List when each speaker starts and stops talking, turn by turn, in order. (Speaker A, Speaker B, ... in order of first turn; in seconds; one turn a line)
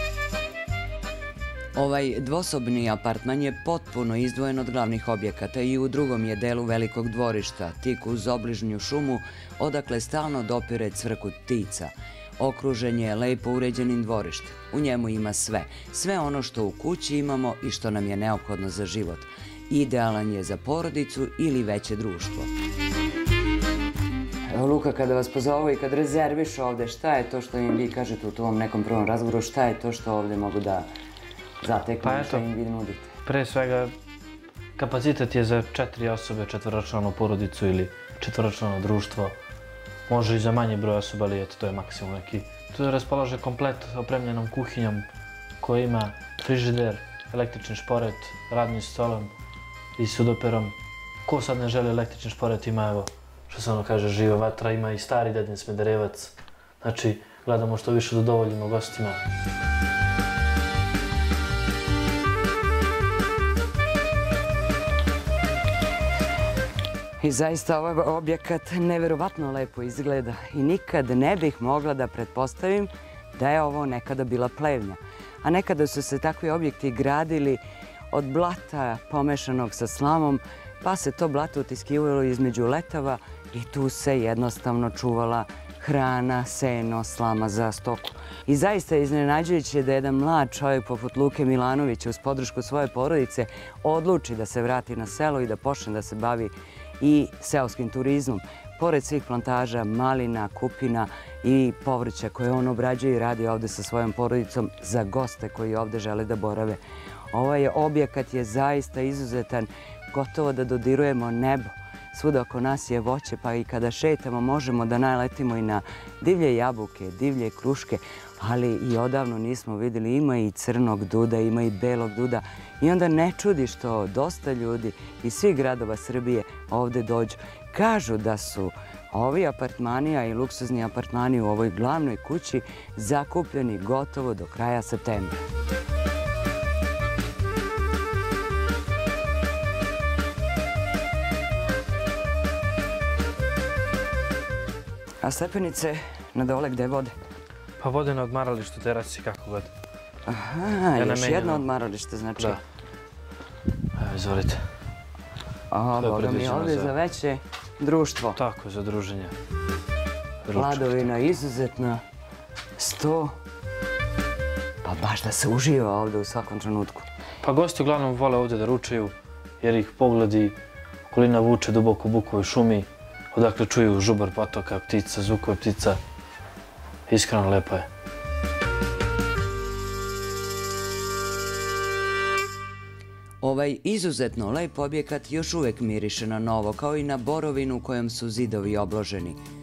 Speaker A: 1.8-22.5
Speaker A: 24.5-30.9
Speaker A: 31.6-33.1
Speaker B: 32.0-32.5
Speaker B: 33.2-33.9
Speaker B: 34.8-39.4
Speaker B: 40.1-45.1
Speaker B: 45.6-49.3
Speaker B: 50.0-50.7
Speaker B: 51.2-59.2
Speaker A: 67.2-77.6
Speaker A: 78.1-106.8
Speaker A: 107.3-135.4
Speaker A: 145.2-147.1
Speaker B: 147.8-149.7
Speaker A: 150.3-152.6
Speaker B: 150.9-151.7
Speaker B: 153.9-154.7
Speaker A: 155.7-158.4
Speaker B: 156.0-156.9
Speaker B: 158.4-159.3
Speaker B: 160.4-161.1
Speaker A: 160.5-162.0
Speaker A: 162.8-163.4
Speaker A: 164.8-167.1
Speaker B: 167.4-170.6
Speaker B: 171.1-176.0
Speaker B: 177.1-177.9
Speaker A: 183.4-189.4